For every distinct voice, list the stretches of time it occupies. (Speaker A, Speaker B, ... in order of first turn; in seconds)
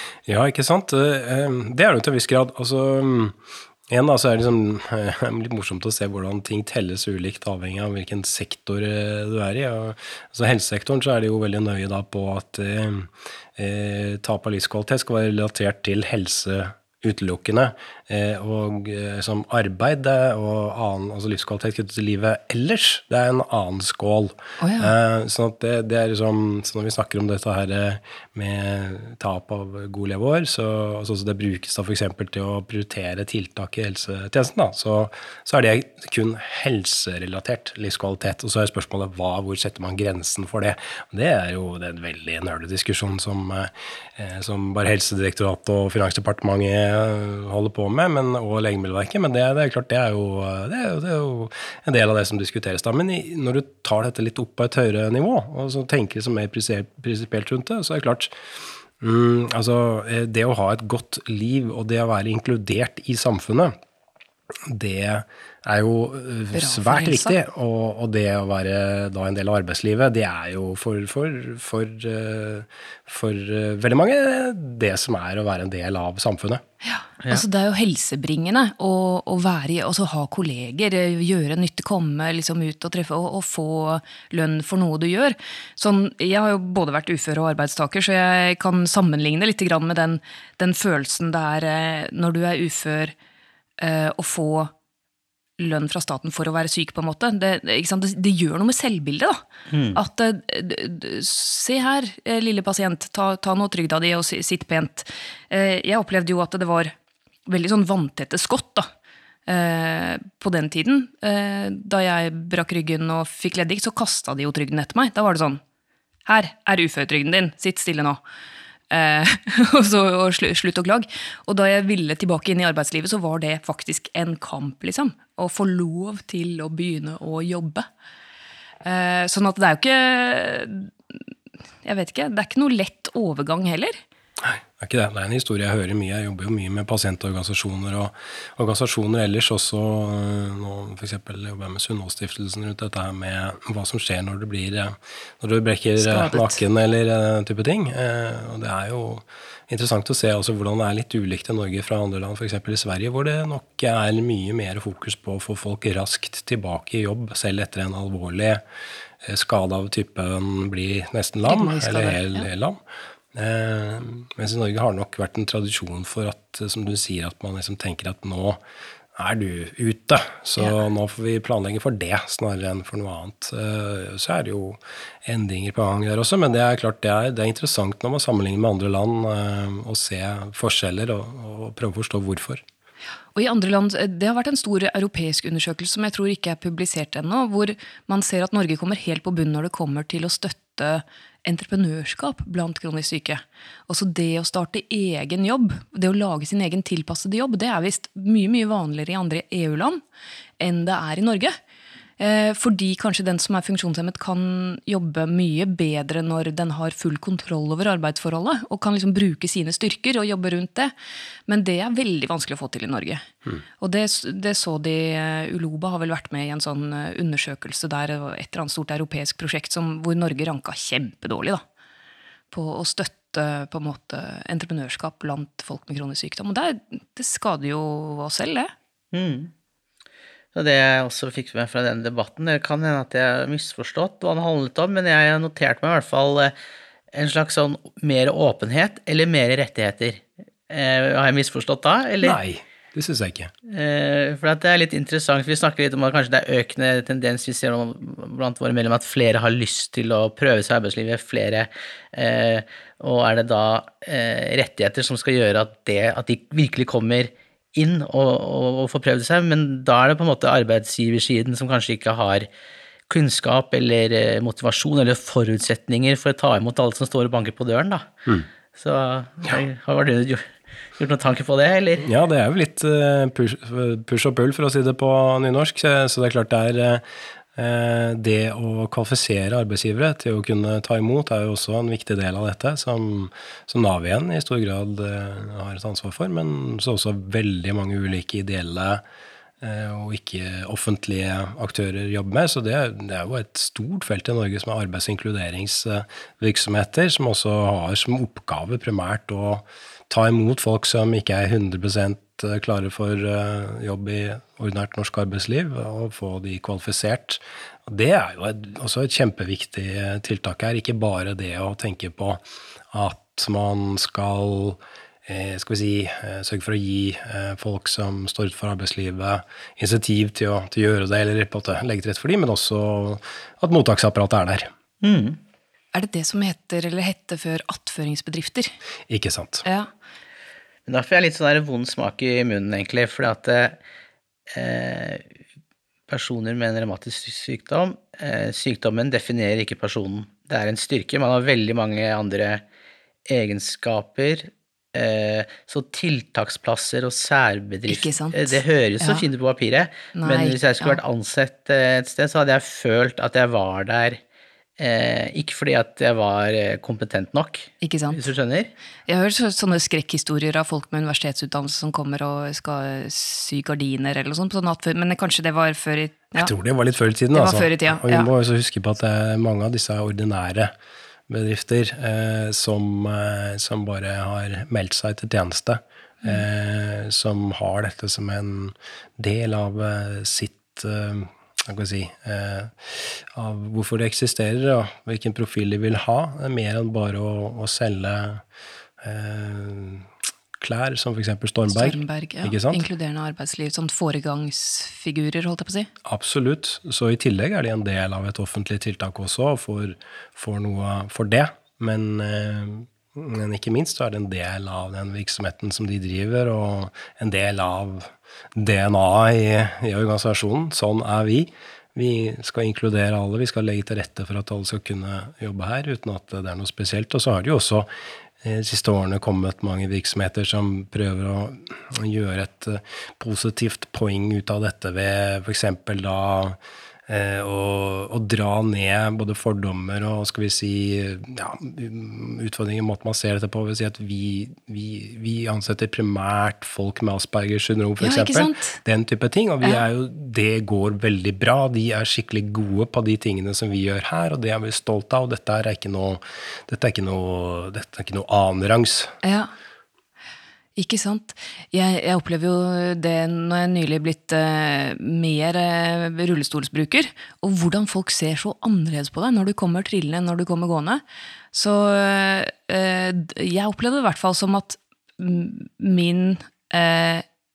Speaker A: 0.3-3.4, 3.9-58.3, 59.0-63.7, 64.7-76.6, 134.4-158.6, 159.2-162.8, 163.3-168.6, 169.2-182.6, 242.2-243.5, 272.0-277.0, 277.6-289.0, 289.6-324.7, 329.1-329.7, 366.4-370.7, 371.3-388.4, 389.0-392.9, 396.1-417.9, 418.4-449.1
Speaker B: 24.6-24.9, 66.5-67.4, 76.8-93.1, 93.8-94.7, 95.6-99.4, 100.0-106.9, 107.5-108.9, 109.5-115.6, 116.3-118.2, 118.9-127.9, 128.8-131.2, 131.8-134.0, 146.0-146.6, 161.4-162.5, 183.3-200.0, 200.6-201.6, 202.2-210.9, 211.5-213.3, 213.8-221.6, 222.5-228.7, 325.9-328.7, 347.9-349.3, 350.1-351.0, 357.8-358.2, 359.1-366.5, 367.3-368.3, 391.7-395.9, 438.0-438.8, 449.2-449.5, 450.8-461.0, 461.5-467.2
Speaker C: 99.7-100.0, 229.1-229.5, 230.5-236.5, 237.1-242.4, 243.7-262.5, 263.1-268.1, 268.8-272.1, 325.0-325.4, 330.9-333.8, 334.5-335.2, 336.1-342.6, 343.3-354.2, 354.8-358.7